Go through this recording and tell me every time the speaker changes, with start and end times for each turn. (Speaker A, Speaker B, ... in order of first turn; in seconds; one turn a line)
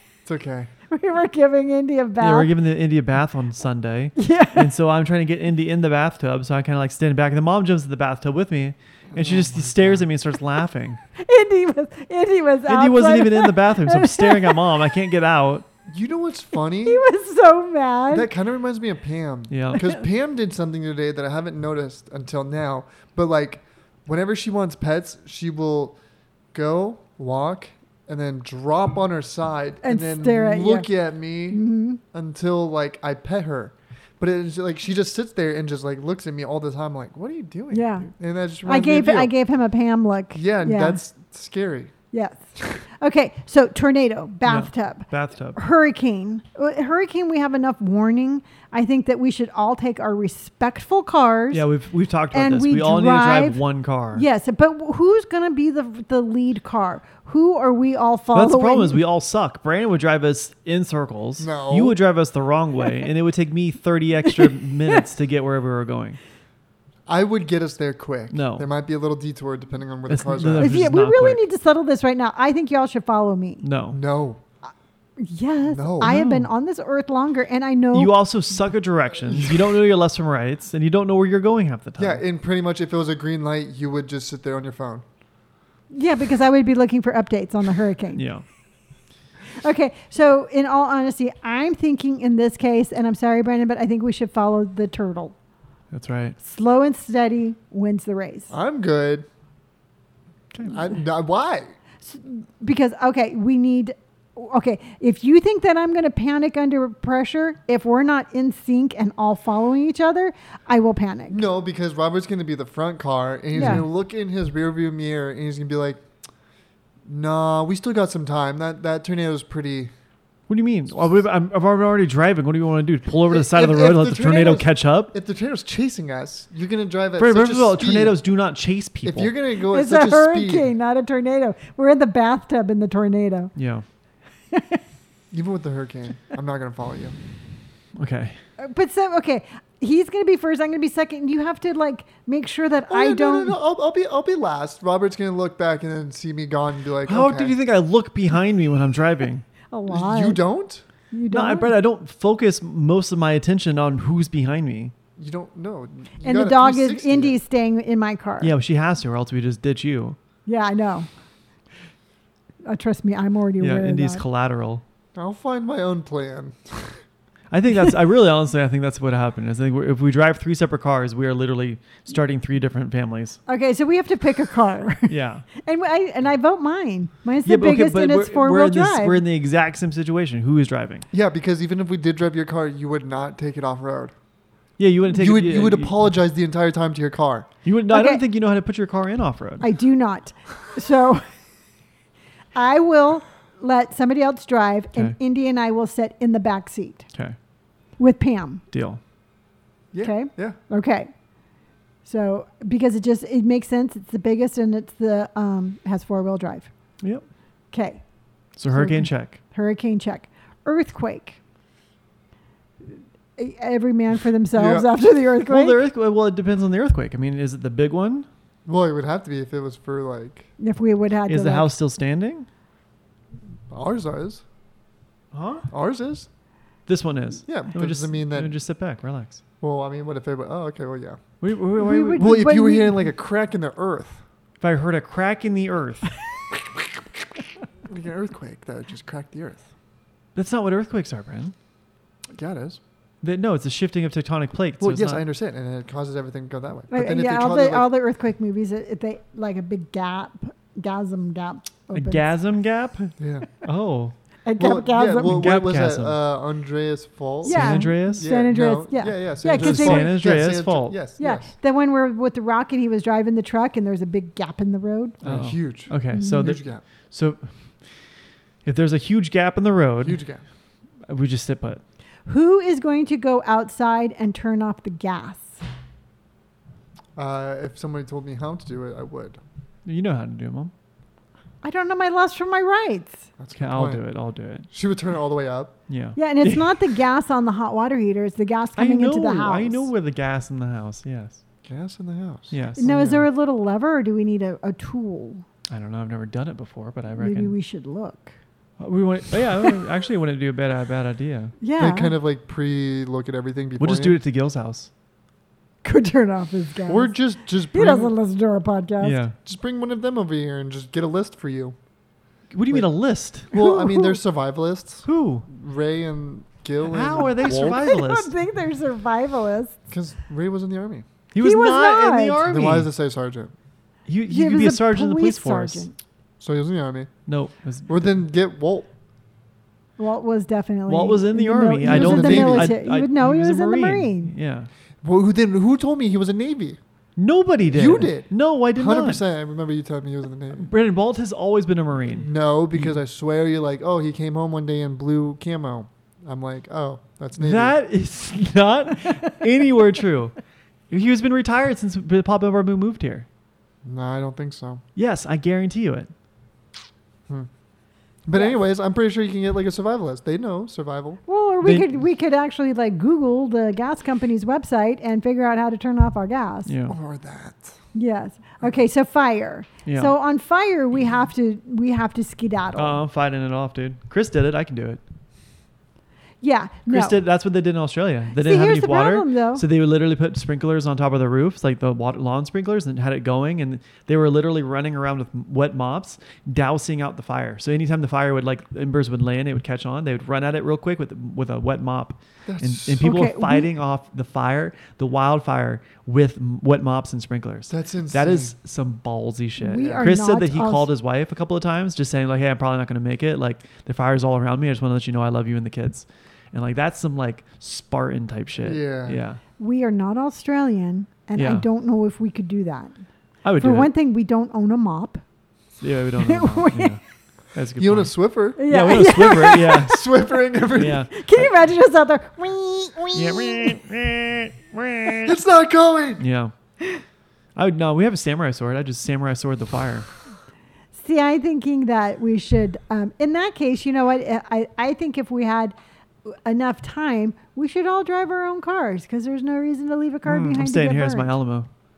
Speaker A: 0.2-0.7
Speaker B: 0.9-2.5
Speaker C: 2.2-11.0
Speaker B: 4.2-4.7
Speaker A: 9.1-10.0
Speaker B: 11.2-14.9
Speaker C: 12.7-15.7
Speaker A: 15.9-17.0
Speaker B: 16.8-18.3
Speaker A: 18.1-26.0
Speaker C: 19.5-19.9
Speaker A: 26.5-31.6
Speaker B: 29.8-30.9
Speaker B: 31.5-32.0
Speaker A: 32.1-39.3
Speaker B: 37.7-38.1
Speaker B: 38.6-41.0
Speaker A: 40.3-41.9
Speaker B: 42.1-42.5
Speaker B: 43.0-51.6
Speaker C: 44.5-45.6
Speaker C: 51.5-54.2
Speaker B: 52.3-53.6
Speaker B: 54.1-59.0
Speaker C: 58.3-66.2
Speaker A: 61.4-62.0
Speaker B: 64.2-65.0
Speaker A: 67.1-70.7
Speaker C: 68.3-68.7
Speaker C: 70.1-71.4
Speaker B: 70.6-73.6
Speaker C: 73.6-74.0
Speaker A: 73.9-74.4
Speaker B: 75.2-78.1
Speaker A: 75.7-76.2
Speaker C: 76.0-76.5
Speaker C: 77.9-82.2
Speaker A: 82.0-85.0
Speaker B: 85.9-88.2
Speaker C: 88.2-88.4
Speaker B: 89.6-95.3
Speaker C: 95.9-96.3
Speaker B: 96.4-98.5
Speaker A: 98.5-99.2
Speaker C: 100.5-100.8
Speaker A: 100.7-101.7
Speaker B: 102.0-111.4
Speaker A: 111.3-116.0
Speaker B: 113.5-113.8
Speaker C: 113.6-113.8
Speaker A: 117.0-119.9
Speaker C: 120.5-125.1
Speaker A: 123.2-128.2
Speaker C: 127.2-129.3
Speaker A: 129.0-130.7
Speaker B: 129.7-133.5
Speaker C: 133.6-133.8
Speaker B: 134.5-134.8
Speaker A: 135.3-137.2
Speaker C: 137.9-138.4
Speaker B: 138.6-143.6
Speaker A: 142.9-147.5
Speaker C: 147.1-149.4
Speaker B: 149.7-150.4
Speaker A: 149.9-150.8
Speaker B: 151.1-151.7
Speaker C: 151.3-154.9
Speaker A: 155.2-157.4
Speaker B: 156.2-158.5
Speaker C: 158.4-160.2
Speaker B: 160.4-161.1
Speaker B: 162.6-164.2
Speaker C: 163.6-164.8
Speaker A: 165.1-166.9
Speaker C: 167.5-173.4
Speaker B: 173.5-179.2
Speaker C: 175.1-175.4
Speaker C: 177.4-181.1
Speaker A: 181.1-184.1
Speaker C: 184.8-185.9
Speaker A: 185.1-187.5
Speaker C: 187.6-189.7
Speaker B: 187.9-188.2
Speaker B: 189.6-191.3
Speaker B: 192.5-197.1
Speaker B: 198.0-198.6
Speaker C: 198.7-199.0
Speaker A: 199.9-200.6
Speaker B: 200.0-201.1
Speaker B: 202.0-206.7
Speaker B: 207.7-208.0
Speaker C: 208.6-209.4
Speaker B: 208.7-211.4
Speaker B: 213.4-215.8
Speaker A: 214.5-214.9
Speaker C: 215.4-218.3
Speaker A: 218.7-220.5
Speaker B: 220.6-221.7
Speaker C: 221.3-222.5
Speaker A: 223.7-224.4
Speaker C: 225.3-225.7
Speaker A: 225.7-226.3
Speaker C: 226.9-229.4
Speaker A: 227.5-228.6
Speaker A: 229.6-231.2
Speaker C: 231.4-232.5
Speaker B: 231.8-233.0
Speaker A: 232.1-234.2
Speaker C: 234.6-236.1
Speaker A: 237.8-239.6
Speaker C: 240.3-241.5
Speaker A: 242.3-242.8
Speaker C: 243.2-245.2
Speaker A: 244.8-247.9
Speaker B: 246.9-252.2
Speaker C: 251.9-254.1
Speaker A: 253.2-253.5
Speaker B: 254.4-255.4
Speaker A: 254.6-261.5
Speaker C: 255.2-256.2
Speaker C: 257.4-258.3
Speaker B: 257.4-260.1
Speaker C: 259.5-261.0
Speaker B: 261.2-265.2
Speaker A: 265.2-266.8
Speaker C: 265.2-267.5
Speaker B: 266.1-266.5
Speaker C: 268.6-270.2
Speaker A: 270.0-270.4
Speaker C: 271.1-271.8
Speaker B: 272.2-275.6
Speaker A: 277.1-279.4
Speaker C: 279.8-280.7
Speaker B: 281.6-283.3
Speaker A: 283.4-284.0
Speaker C: 283.6-284.7
Speaker A: 284.7-285.8
Speaker C: 285.9-286.8
Speaker B: 286.1-289.9
Speaker C: 288.8-291.4
Speaker A: 291.6-293.2
Speaker C: 292.5-292.9
Speaker B: 292.8-295.4
Speaker C: 295.7-297.5
Speaker B: 297.1-298.3
Speaker C: 298.8-301.5
Speaker B: 301.6-302.1
Speaker A: 301.8-304.2
Speaker C: 303.8-304.9
Speaker B: 305.8-307.1
Speaker A: 306.9-308.1
Speaker B: 307.7-309.2
Speaker C: 309.0-309.3
Speaker A: 309.4-311.8
Speaker C: 312.5-313.5
Speaker A: 313.5-317.8
Speaker B: 313.5-314.2
Speaker C: 315.1-315.4
Speaker C: 316.8-318.3
Speaker B: 317.4-319.8
Speaker A: 319.9-321.1
Speaker C: 321.3-322.9
Speaker B: 321.4-322.4
Speaker A: 322.4-323.5
Speaker C: 324.1-325.9
Speaker B: 324.3-325.9
Speaker A: 326.4-327.1
Speaker C: 327.3-328.1
Speaker A: 327.9-328.9
Speaker B: 330.0-334.3
Speaker C: 330.9-334.7
Speaker A: 331.8-332.8
Speaker A: 335.0-336.8
Speaker C: 337.2-339.2
Speaker A: 337.7-340.7
Speaker C: 340.6-342.9
Speaker A: 342.1-347.7
Speaker C: 347.4-350.3
Speaker C: 350.9-353.2
Speaker A: 353.8-354.8
Speaker C: 354.9-356.1
Speaker A: 358.2-361.2
Speaker B: 361.3-366.7
Speaker C: 366.6-366.9
Speaker A: 366.9-367.8
Speaker B: 367.9-373.0
Speaker C: 369.9-370.1
Speaker C: 372.8-375.0
Speaker B: 376.4-377.2
Speaker C: 376.9-409.4
Speaker B: 378.4-379.6
Speaker A: 392.4-393.1
Speaker B: 393.0-393.7
Speaker A: 397.7-398.5
Speaker B: 399.6-400.9
Speaker A: 399.7-400.1
Speaker A: 408.6-409.2
Speaker B: 409.6-412.9
Speaker C: 411.4-411.6
Speaker C: 413.4-413.9
Speaker B: 413.6-415.2
Speaker C: 415.8-417.0
Speaker B: 416.2-417.0
Speaker C: 417.5-420.1
Speaker A: 417.8-418.6
Speaker B: 418.6-419.9
Speaker A: 419.8-421.0
Speaker C: 420.7-421.5
Speaker B: 421.1-423.7
Speaker C: 423.1-425.3
Speaker A: 425.2-426.2
Speaker C: 426.2-426.5
Speaker C: 427.6-430.1
Speaker B: 430.9-435.7
Speaker B: 436.3-441.3
Speaker C: 440.2-441.7